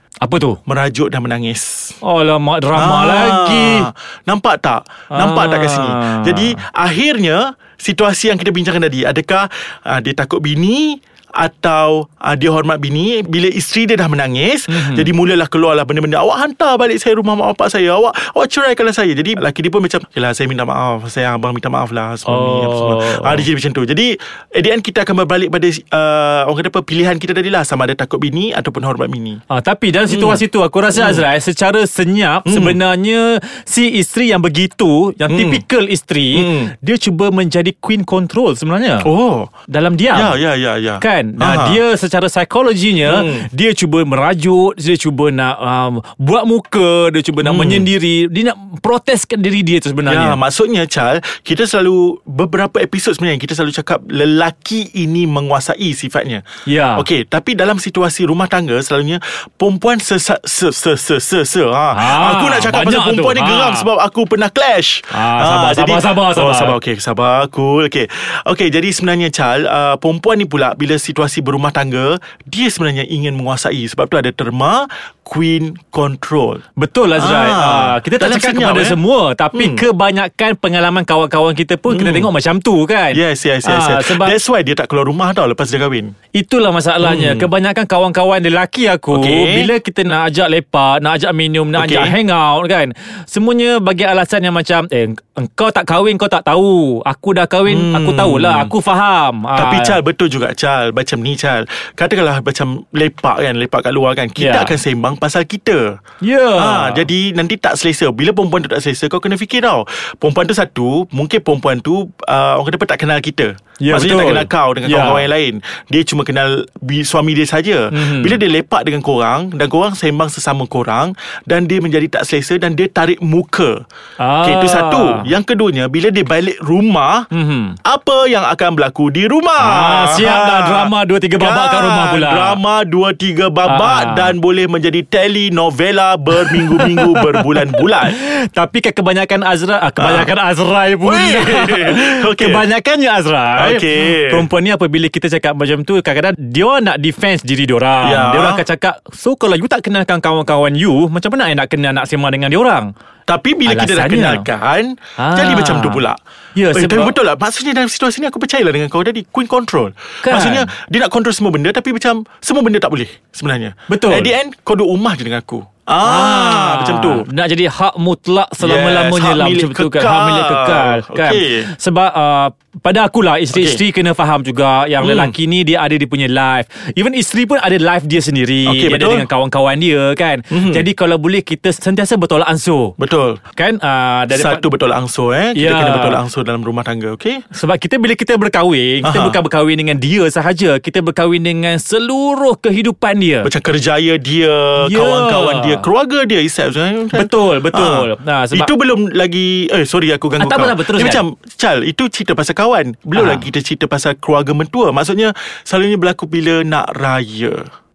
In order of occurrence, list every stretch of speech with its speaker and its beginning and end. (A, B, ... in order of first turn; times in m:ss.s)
0:00.2-0:00.6 A
0:00.7-0:02.0 B
0:02.0-0:03.9 A
0:02.7-0:29.4 B
0:05.1-0:06.6 A
0:14.7-0:15.1 A
0:22.3-0:23.5 A
0:29.5-0:39.1 A
0:30.1-0:31.3 B
0:32.5-0:32.8 B
0:35.3-0:35.6 B
0:36.3-0:36.7 B
0:39.0-0:39.5 B
0:39.7-0:40.4 A
0:40.1-0:41.8 B
0:41.0-0:50.4 A
0:43.0-0:43.5 B
0:47.4-0:47.9 B
0:50.1-0:56.4 B
0:56.7-0:57.1 A
0:57.0-1:16.6 B
1:01.9-1:03.9 A
1:05.1-1:06.8 A
1:16.8-1:24.4 A
1:17.2-1:19.0 B
1:19.5-1:19.8 B
1:21.9-1:22.3 B
1:23.1-1:26.1 B
1:26.3-1:40.0 A
1:27.0-1:27.5 B
1:29.1-1:29.7 B
1:31.8-1:32.2 B
1:37.7-1:38.7 B
1:39.6-1:46.0 B
1:44.4-1:44.8 A
1:46.2-1:47.1 A
1:46.6-2:03.8 B
1:53.8-1:55.3 A
1:57.9-1:58.4 A
2:04.2-2:05.3 A
2:04.4-2:07.3 B
2:07.3-2:07.8 A
2:07.8-2:18.2 B
2:09.6-2:12.6 A
2:13.6-2:14.3 A
2:16.4-2:32.9 A
2:20.0-2:20.3 B
2:21.0-2:22.6 B
2:23.6-2:24.5 B
2:28.0-2:28.6 B
2:33.3-2:36.2 B
2:33.7-2:34.5 A
2:35.2-2:36.0 A
2:36.6-2:37.2 A
2:36.7-2:47.3 B
2:40.2-2:40.7 A
2:43.9-2:44.3 A
2:46.0-3:03.0 A
2:48.6-2:51.7 B
2:53.5-2:53.8 B
2:55.0-2:55.4 B
2:58.7-2:59.3 B
3:00.5-3:00.8 B
3:03.0-3:03.4 B
3:03.6-3:04.6 A
3:04.3-3:07.4 B
3:05.6-3:06.2 A
3:07.5-3:13.5 A
3:09.0-3:09.4 B
3:13.4-3:27.7 B
3:14.8-3:15.8 A
3:17.1-3:18.7 A
3:20.4-3:21.2 A
3:23.2-3:23.5 A